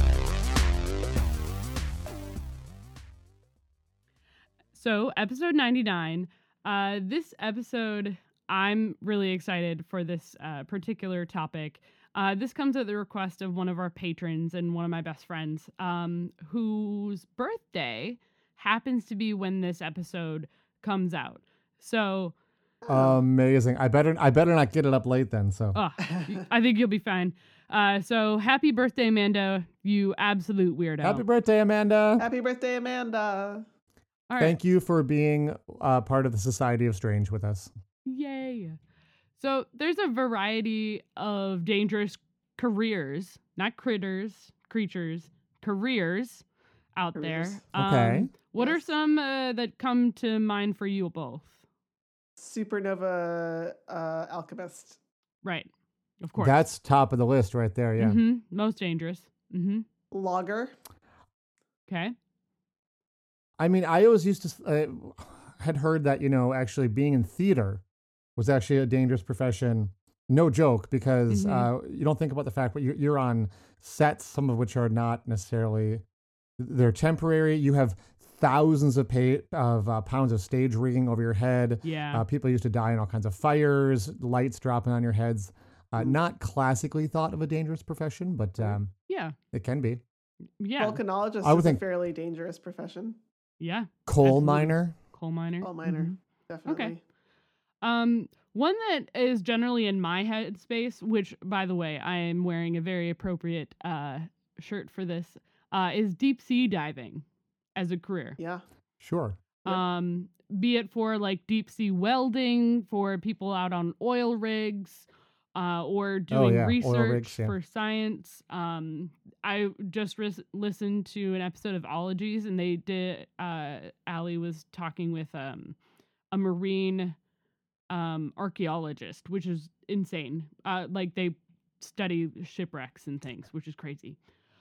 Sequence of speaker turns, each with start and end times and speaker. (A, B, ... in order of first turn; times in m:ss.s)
0:04.7-0:22.3 A
0:22.8-0:23.2 B
0:22.9-0:25.8 C
0:25.8-0:31.2 A
0:31.0-0:32.3 C
0:32.2-0:33.7 B
0:34.3-0:34.6 A
0:34.4-0:37.7 C
0:38.1-0:38.8 A
0:39.4-0:46.4 A
0:47.0-0:51.6 A
0:47.2-0:47.6 B
0:47.8-0:48.3 C
0:48.6-0:48.9 B
0:52.4-0:55.0 B
0:55.4-0:55.7 A
0:56.2-0:56.6 A
0:56.4-0:58.2 C
0:58.0-0:59.9 A
1:00.1-1:00.7 B
1:01.9-1:02.2 A
1:03.6-1:07.8 C
1:08.4-1:16.0 C
1:11.3-1:11.7 A
1:16.6-1:28.9 C
1:21.8-1:22.2 A
1:29.1-1:29.4 A
1:29.5-1:30.0 C
1:30.6-1:31.0 A
1:30.8-1:33.2 B
1:31.4-1:31.8 C
1:33.6-1:37.0 A
1:34.1-1:35.0 C
1:35.6-1:37.0 B
1:37.8-1:47.2 A
1:47.8-1:48.4 A
1:48.4-1:48.6 B
1:49.0-1:49.4 C
1:49.6-2:05.8 A
1:56.3-1:57.6 C
2:06.3-2:07.2 A
2:07.9-2:14.2 A